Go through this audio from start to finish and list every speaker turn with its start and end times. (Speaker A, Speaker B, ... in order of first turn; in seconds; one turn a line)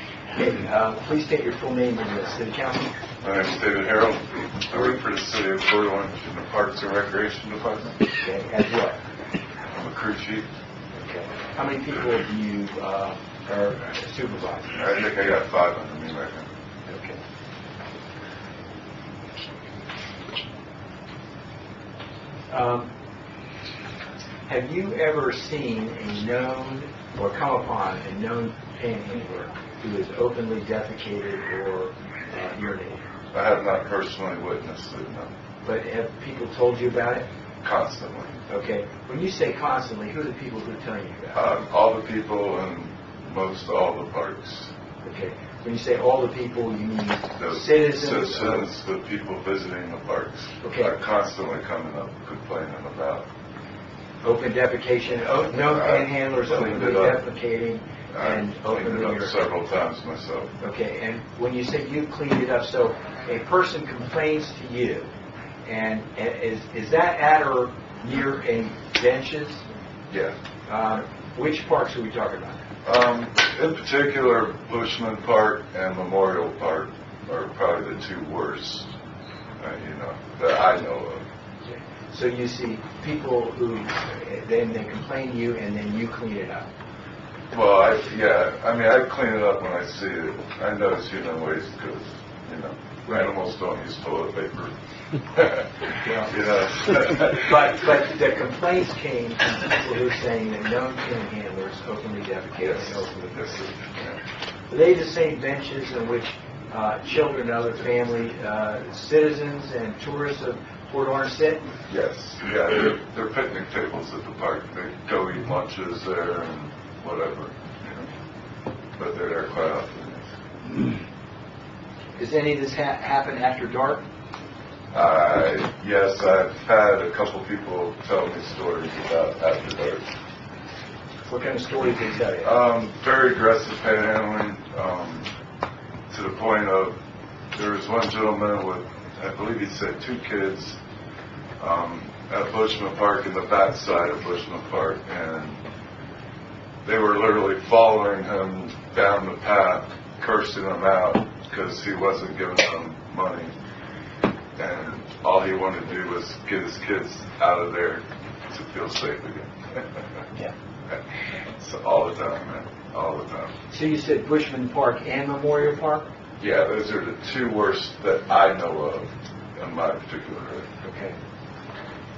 Speaker A: 0.3-3.0
Speaker B: 3.2-8.0
Speaker A: 4.7-5.0
Speaker A: 8.2-9.0
Speaker B: 9.7-10.5
Speaker A: 10.9-14.8
Speaker B: 14.7-16.5
Speaker A: 16.9-17.2
Speaker A: 22.5-22.9
Speaker A: 24.5-33.0
Speaker B: 33.3-35.3
Speaker A: 35.6-37.3
Speaker B: 37.6-38.4
Speaker A: 38.5-41.4
Speaker B: 41.3-44.7
Speaker A: 45.0-48.7
Speaker B: 47.4-53.3
Speaker A: 50.6-50.9
Speaker A: 54.2-59.4
Speaker B: 55.5-57.2
Speaker B: 58.1-60.5
Speaker A: 60.6-65.1
Speaker A: 65.6-69.6
Speaker B: 70.1-70.3
Speaker A: 70.7-72.6
Speaker B: 72.8-78.9
Speaker B: 79.6-81.2
Speaker A: 81.6-86.7
Speaker B: 87.5-94.7
Speaker B: 95.3-97.5
Speaker A: 96.0-96.5
Speaker A: 97.1-103.6
Speaker B: 102.6-104.2
Speaker A: 104.7-111.7
Speaker B: 111.8-118.1
Speaker B: 119.0-120.3
Speaker A: 122.2-124.0
Speaker B: 124.9-130.1
Speaker A: 131.3-132.5
Speaker B: 132.4-135.3
Speaker B: 136.1-137.0
Speaker B: 137.5-140.8
Speaker B: 141.6-145.6
Speaker B: 146.8-153.5
Speaker B: 154.6-160.2
Speaker B: 160.9-163.5
Speaker A: 163.7-166.1
Speaker B: 166.4-170.7
Speaker A: 170.8-171.2